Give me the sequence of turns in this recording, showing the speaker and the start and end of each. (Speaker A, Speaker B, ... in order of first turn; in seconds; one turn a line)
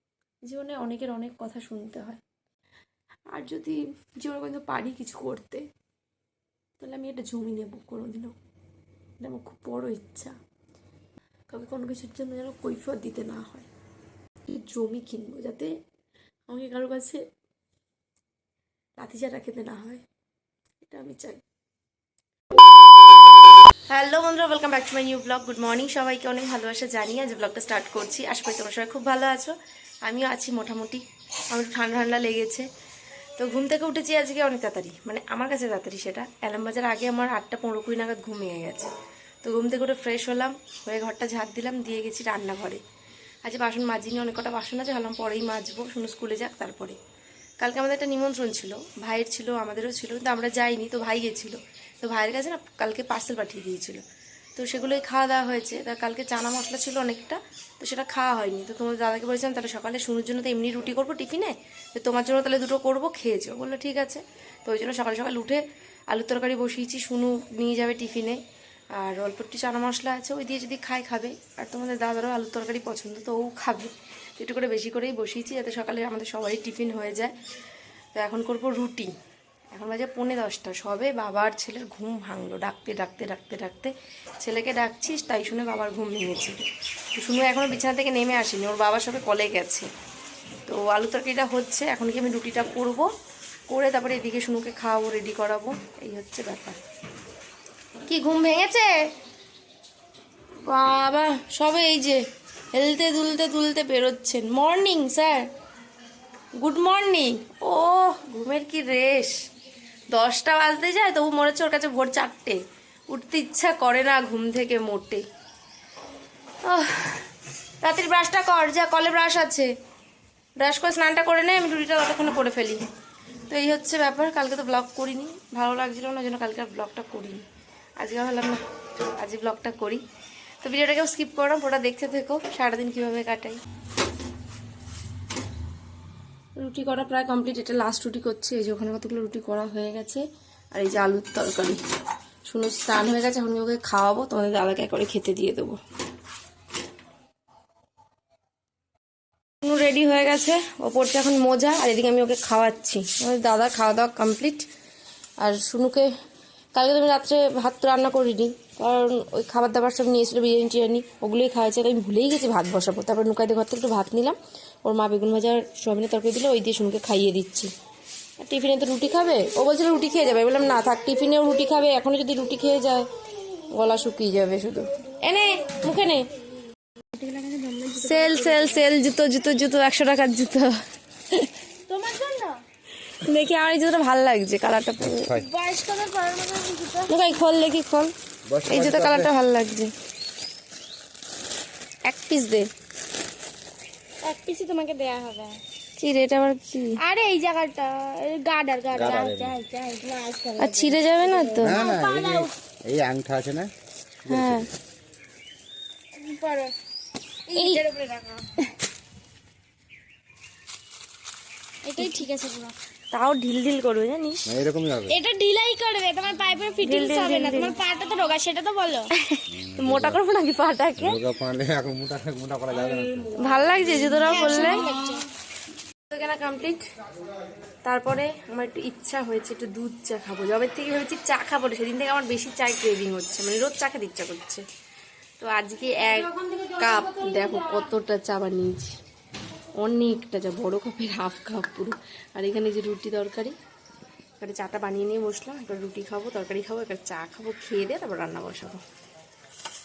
Speaker A: 0.5-2.2
Speaker A: 3.3-5.6
Speaker A: 6.8-8.3
Speaker A: 9.2-10.3
Speaker A: 11.5-13.7
Speaker A: 14.5-15.7
Speaker A: 16.5-17.2
Speaker A: 19.0-20.0
Speaker A: 20.8-21.4
Speaker A: 23.9-32.7
Speaker A: 33.4-42.8
Speaker A: 43.4-47.0
Speaker A: 47.6-54.0
Speaker A: 54.6-68.4
Speaker A: 69.0-77.3
Speaker A: 78.2-79.2
Speaker A: 79.7-86.6
Speaker A: 87.2-89.9
Speaker A: 90.7-93.1
Speaker A: 93.7-96.8
Speaker A: 98.1-99.0
Speaker A: 100.7-102.2
Speaker A: 102.7-105.5
Speaker A: 106.6-109.3
Speaker A: 110.1-115.2
Speaker A: 116.6-117.3
Speaker A: 117.8-119.7
Speaker A: 120.6-122.8
Speaker A: 123.5-127.4
Speaker A: 128.0-128.6
Speaker A: 129.2-130.0
Speaker A: 130.6-133.6
Speaker A: 136.6-141.8
Speaker A: 142.5-145.8
Speaker A: 149.6-154.7
Speaker A: 155.4-156.1
Speaker A: 156.7-167.7
Speaker A: 168.4-176.3
Speaker B: 177.2-178.8
Speaker A: 178.0-180.7
Speaker B: 181.9-182.6
Speaker A: 183.1-185.4
Speaker C: 185.0-185.5
Speaker B: 185.3-187.1
Speaker A: 187.1-188.1
Speaker C: 188.5-189.3
Speaker A: 188.6-189.9
Speaker A: 192.1-192.7
Speaker B: 194.2-195.6
Speaker A: 196.0-197.0
Speaker B: 197.0-202.5
Speaker C: 198.9-199.6
Speaker A: 200.6-201.9
Speaker C: 201.6-203.7
Speaker C: 204.3-204.6
Speaker A: 204.3-204.7
Speaker B: 206.2-206.7
Speaker B: 207.5-208.7
Speaker A: 207.5-207.8
Speaker B: 211.8-212.7
Speaker A: 212.0-212.3
Speaker A: 213.1-214.6
Speaker C: 214.5-215.2
Speaker B: 215.1-219.1
Speaker A: 216.8-217.8
Speaker A: 219.2-221.2
Speaker C: 219.5-220.2
Speaker C: 221.0-223.3
Speaker A: 223.4-224.9
Speaker B: 224.2-225.2
Speaker A: 226.1-226.8
Speaker A: 227.8-234.6
Speaker A: 235.4-238.9
Speaker A: 239.8-243.6
Speaker A: 244.4-248.8